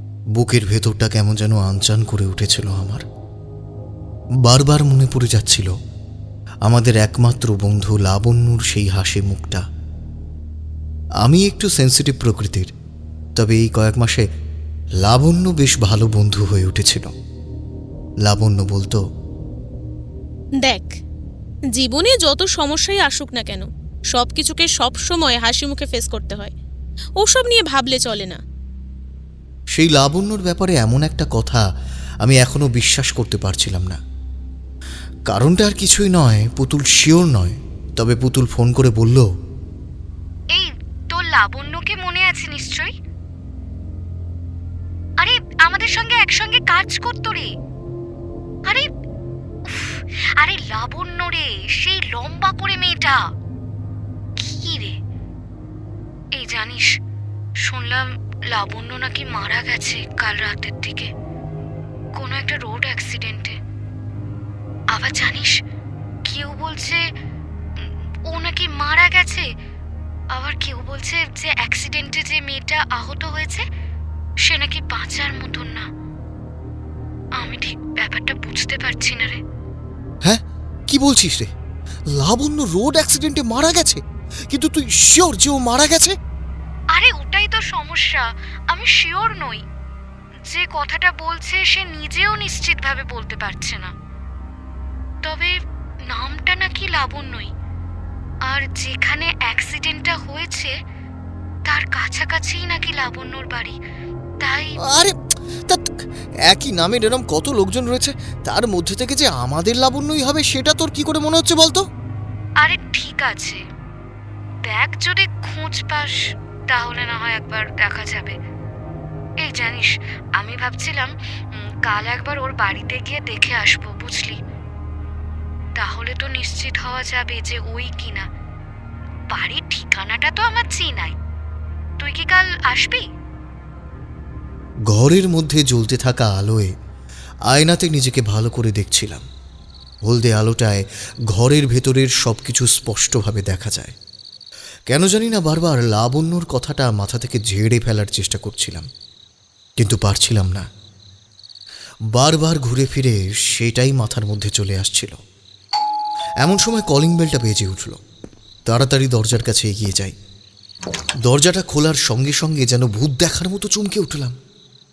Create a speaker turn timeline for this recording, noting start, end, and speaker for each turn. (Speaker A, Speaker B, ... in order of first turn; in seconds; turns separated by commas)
Speaker A: 0.4-3.0, Speaker A: 4.5-5.7, Speaker A: 6.7-9.6, Speaker A: 11.2-12.7, Speaker A: 13.4-14.2, Speaker A: 15.1-17.1, Speaker A: 18.3-19.0, Speaker B: 20.6-20.9, Speaker B: 21.8-26.5, Speaker B: 27.2-28.4, Speaker A: 29.8-31.6, Speaker A: 32.2-34.0, Speaker A: 35.3-39.3, Speaker C: 40.5-42.9, Speaker C: 45.2-47.5, Speaker C: 49.7-53.2, Speaker C: 54.4-55.0, Speaker C: 56.4-56.9, Speaker C: 57.6-61.1, Speaker C: 62.2-63.6, Speaker C: 64.9-65.5, Speaker C: 66.3-67.0, Speaker C: 67.8-69.5, Speaker C: 70.3-73.7, Speaker C: 74.4-75.8, Speaker C: 77.4-79.4, Speaker A: 80.2-81.5, Speaker A: 82.2-86.2, Speaker C: 86.9-89.6, Speaker C: 90.5-93.9, Speaker C: 95.2-95.5, Speaker C: 96.1-97.5, Speaker C: 98.5-100.7, Speaker C: 101.7-103.8, Speaker C: 104.4-104.8, Speaker A: 104.8-105.1, Speaker A: 106.5-111.8, Speaker C: 112.6-113.6, Speaker C: 114.7-116.2, Speaker C: 116.7-118.3, Speaker C: 119.4-124.4, Speaker C: 125.8-128.2, Speaker C: 129.3-131.2, Speaker C: 132.0-133.0, Speaker A: 134.9-136.7, Speaker A: 137.5-139.2, Speaker A: 140.1-143.9, Speaker A: 144.9-148.9, Speaker A: 149.8-150.7, Speaker A: 152.2-155.2, Speaker A: 156.4-158.0, Speaker A: 158.7-160.2, Speaker A: 161.2-164.3